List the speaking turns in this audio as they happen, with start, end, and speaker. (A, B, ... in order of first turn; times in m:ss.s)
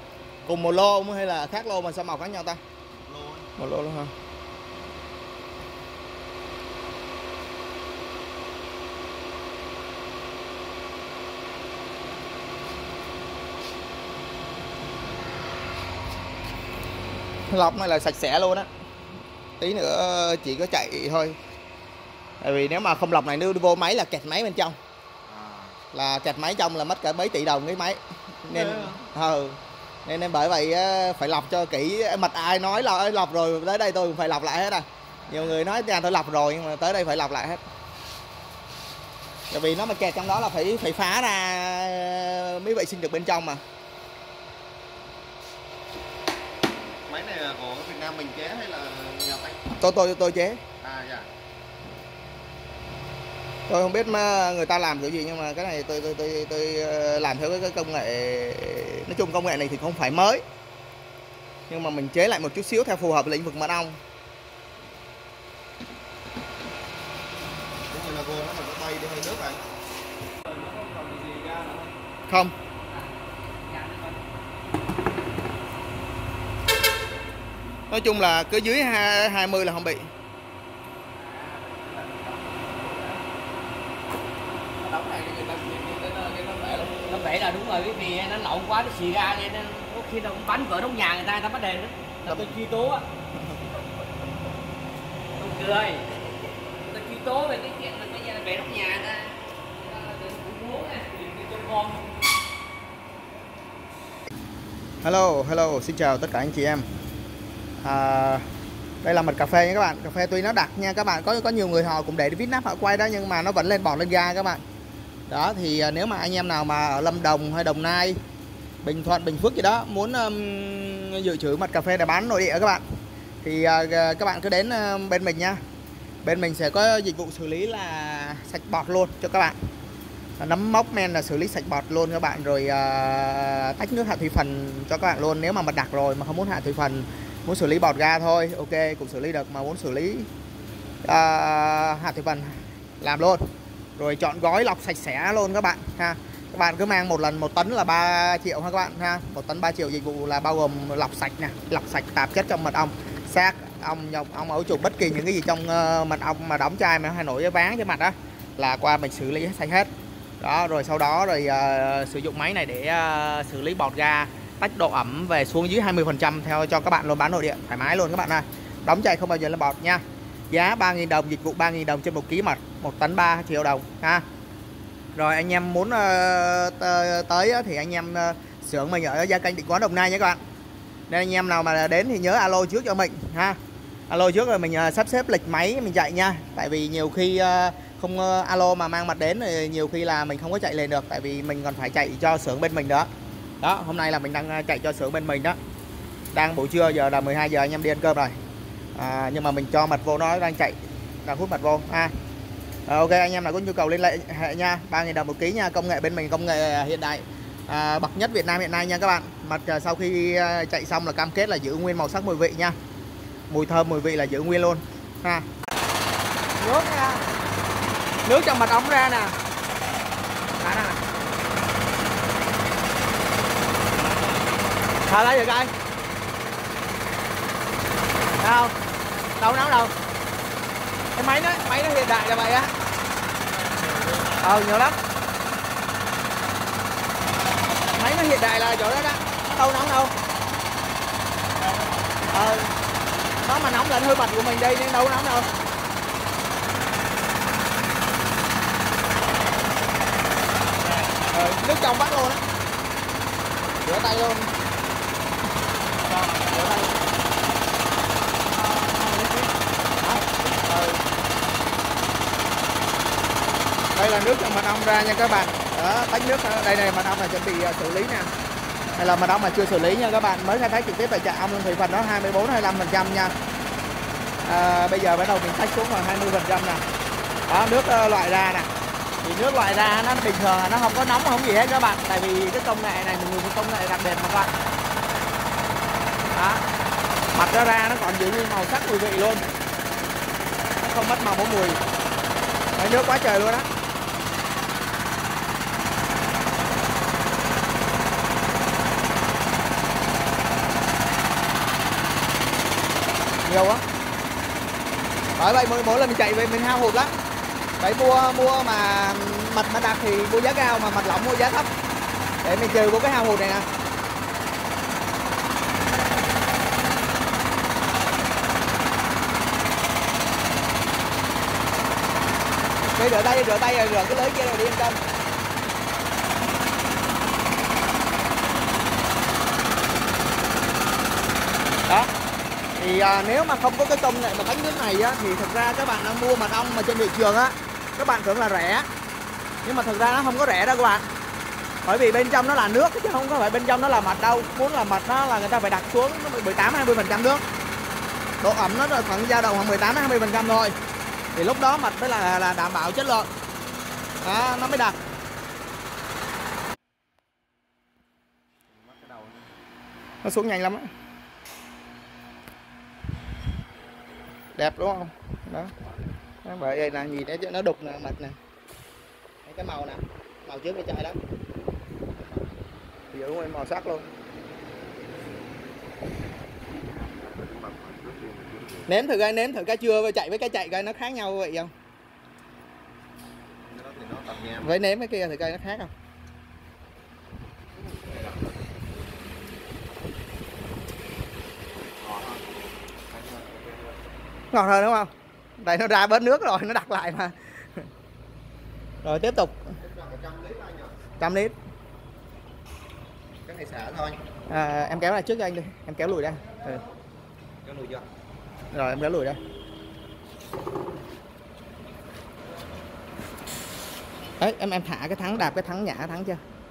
0:00.5-0:02.6 A
0:02.9-0:03.5 B
0:03.6-0:04.1 A
0:17.5-0:18.7 A
0:19.6-0:21.4 A
0:22.4-0:24.8 A
0:25.3-0:25.7 B
0:25.9-0:37.6 A
0:28.5-0:29.0 B
0:39.5-0:43.6 A
0:47.1-0:49.7 B
0:49.8-0:50.6 A
0:50.8-0:51.3 B
0:53.7-1:00.4 A
1:01.7-1:04.0 A
1:07.9-1:09.6 B
1:10.5-1:11.8 C
1:12.3-1:12.5 A
1:12.9-1:14.2 C
1:17.9-1:20.1 A
1:21.2-1:23.2 C
1:24.8-1:33.1 C
1:35.4-1:36.1 C
1:36.9-1:42.1 C
1:45.0-1:46.8 A
1:47.8-1:48.4 A
1:49.0-1:54.6 A
1:55.3-1:58.2 A
1:58.8-2:02.8 A
2:03.4-2:05.6 A
2:06.2-2:09.6 A
2:10.4-2:20.3 A
2:21.0-2:23.4 A
2:24.0-2:39.9 A
2:40.4-2:54.2 A
2:55.2-3:00.4 A
3:01.1-3:03.6 A
3:04.1-3:13.1 A
3:13.6-3:15.6 A
3:16.3-3:18.4 A
3:19.0-3:22.1 A
3:22.9-3:32.8 A
3:33.5-3:35.5 A
3:36.6-3:37.2 A
3:38.2-3:39.4 A
3:40.6-3:41.0 A
3:45.0-3:45.7 A
3:48.4-3:48.7 A
3:49.4-3:49.9 A
3:51.2-3:52.7 A
3:54.4-3:55.0 A
3:57.9-4:00.1 A
4:02.3-4:02.7 A
4:03.4-4:05.5 A
4:11.1-4:12.4 A
4:13.8-4:14.5 A
4:16.0-4:17.0 A
4:18.6-4:21.0 A
4:24.0-4:28.3 A
4:29.0-4:33.3 A
4:34.4-4:36.8 A
4:37.5-4:38.7 A
4:39.2-4:44.5 A
4:46.3-4:46.6 A
4:47.3-4:49.5 A
4:50.8-4:51.8 A
4:52.8-4:53.7 A
5:03.4-5:03.8 A
5:05.4-5:07.1 A
5:07.8-5:11.7 A
5:12.4-5:13.7 A
5:22.9-5:25.0 A
5:32.8-5:38.9 A
5:39.6-5:41.0 A
5:41.8-5:47.4 A
5:48.4-5:50.8 A
5:51.4-5:53.3 A
5:54.2-5:55.0 A
5:58.7-5:59.5 B
6:00.2-6:00.9 A
6:04.6-6:05.7 A
6:06.4-6:08.4 A
6:09.4-6:11.2 A
6:13.1-6:14.1 A
6:16.9-6:18.9 B
6:18.9-6:21.7 A
6:23.6-6:24.7 B
6:24.6-6:25.9 A
6:27.8-6:28.5 B
6:32.0-6:32.4 B
6:33.1-6:34.0 B
6:34.5-6:37.4 A
6:39.0-6:39.7 A
6:39.8-6:41.0 B
6:41.2-6:41.5 A
6:43.4-6:44.2 B
6:44.5-6:46.8 A
6:47.6-6:48.0 B
6:48.7-6:49.4 A
6:54.4-6:56.4 A